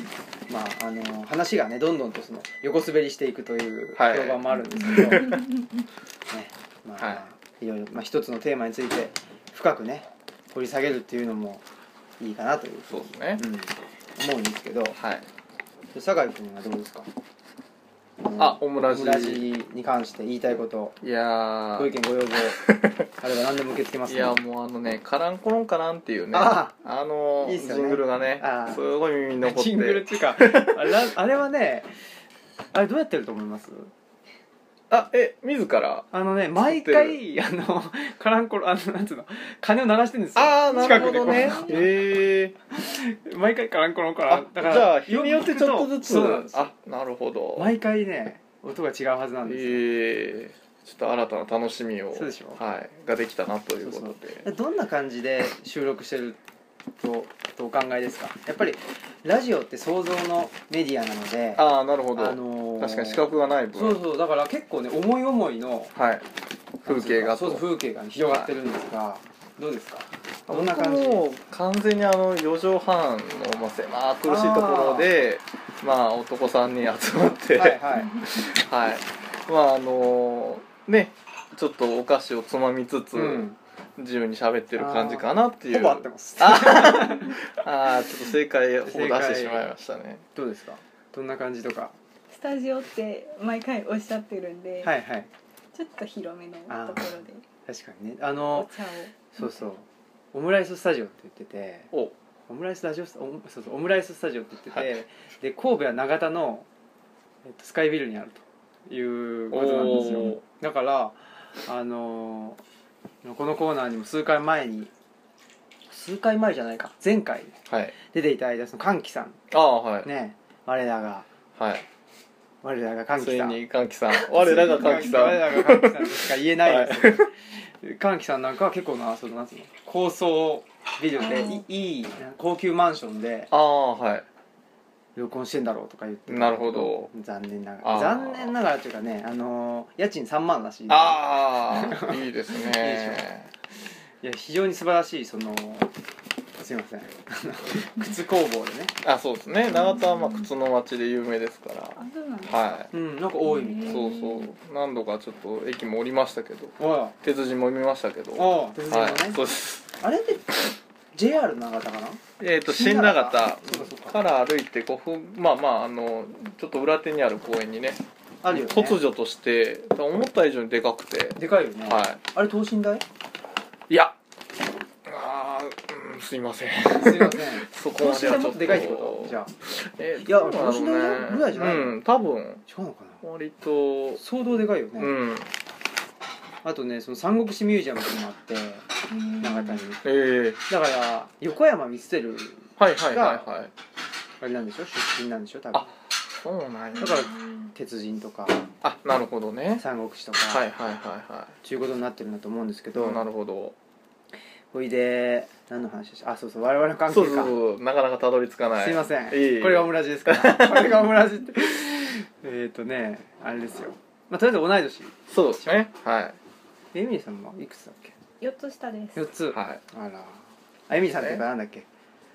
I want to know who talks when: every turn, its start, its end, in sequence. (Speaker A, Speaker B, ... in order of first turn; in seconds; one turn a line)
Speaker A: 0.5-5.3
Speaker B: 4.0-5.4
Speaker A: 6.3-11.6
Speaker A: 12.2-15.0
Speaker B: 12.9-13.4
Speaker B: 15.0-15.3
Speaker A: 15.9-17.1
Speaker A: 18.2-21.0
Speaker B: 18.4-19.5
Speaker B: 21.0-21.9
Speaker A: 21.8-22.6
Speaker B: 22.5-23.1
Speaker A: 23.2-24.4
Speaker B: 24.1-31.1
Speaker A: 26.3-26.7
Speaker A: 27.4-28.8
Speaker A: 29.4-31.9
Speaker A: 32.7-33.9
Speaker B: 34.9-37.2
Speaker A: 36.1-42.0
Speaker B: 40.3-42.5
Speaker C: 41.0-41.5
Speaker A: 42.7-46.7
Speaker B: 44.3-47.7
Speaker A: 47.5-49.8
Speaker B: 49.4-54.5
Speaker A: 52.1-52.6
Speaker A: 53.8-56.4
Speaker A: 57.0-61.6
Speaker B: 61.5-64.0
Speaker A: 62.1-65.9
Speaker B: 65.9-66.2
Speaker B: 66.8-67.7
Speaker A: 66.8-71.2
Speaker B: 68.2-68.5
Speaker B: 70.5-90.2
Speaker A: 74.2-75.1
Speaker A: 77.5-78.2
Speaker A: 83.1-83.6
Speaker A: 84.7-87.5
Speaker A: 88.8-89.7
Speaker A: 90.3-92.0
Speaker C: 92.3-94.9
Speaker A: 94.8-95.3
Speaker C: 95.7-97.4
Speaker A: 96.7-98.7
Speaker C: 98.5-99.5
Speaker A: 99.3-101.9
Speaker A: 102.5-106.7
Speaker A: 107.4-112.6
Speaker B: 109.5-110.4
Speaker A: 113.2-114.9
Speaker A: 115.9-119.4
Speaker B: 117.7-117.9
Speaker B: 119.5-120.1
Speaker A: 120.0-121.3
Speaker B: 121.6-121.8
Speaker A: 122.6-123.6
Speaker B: 123.2-127.2
Speaker A: 124.1-133.5
Speaker C: 131.2-131.6
Speaker B: 133.5-134.2
Speaker A: 135.2-143.2
Speaker B: 136.3-137.1
Speaker B: 137.8-138.5
Speaker B: 140.9-143.5
Speaker A: 144.2-145.9
Speaker A: 146.6-148.9
Speaker B: 149.0-152.9
Speaker C: 149.7-150.5
Speaker C: 151.9-152.8
Speaker A: 152.9-154.1
Speaker C: 153.4-154.5
Speaker B: 153.8-159.9
Speaker A: 156.8-157.2
Speaker A: 158.3-159.4
Speaker A: 160.0-164.2
Speaker B: 162.4-172.2
Speaker A: 168.4-169.0
Speaker A: 171.3-173.0
Speaker B: 173.9-174.1
Speaker B: 175.1-182.6
Speaker A: 176.9-179.5
Speaker A: 180.2-182.0
Speaker A: 182.7-183.2
Speaker B: 183.2-184.2
Speaker A: 184.2-185.1
Speaker B: 185.0-185.5
Speaker A: 186.6-188.8
Speaker C: 189.1-189.8
Speaker A: 189.4-190.0
Speaker B: 190.0-190.6
Speaker A: 190.7-193.5
Speaker B: 192.8-193.7
Speaker A: 194.4-195.9
Speaker B: 195.7-197.3
Speaker A: 197.0-198.7
Speaker C: 197.0-197.7
Speaker B: 198.8-199.8
Speaker A: 199.8-200.6
Speaker B: 200.5-201.5
Speaker A: 201.6-203.2
Speaker B: 202.9-203.8
Speaker A: 204.7-207.5
Speaker B: 207.1-211.1
Speaker A: 208.8-215.8
Speaker B: 215.3-216.4
Speaker A: 216.9-218.1
Speaker C: 218.4-219.3
Speaker A: 219.1-221.8
Speaker B: 219.5-219.8
Speaker B: 221.2-221.4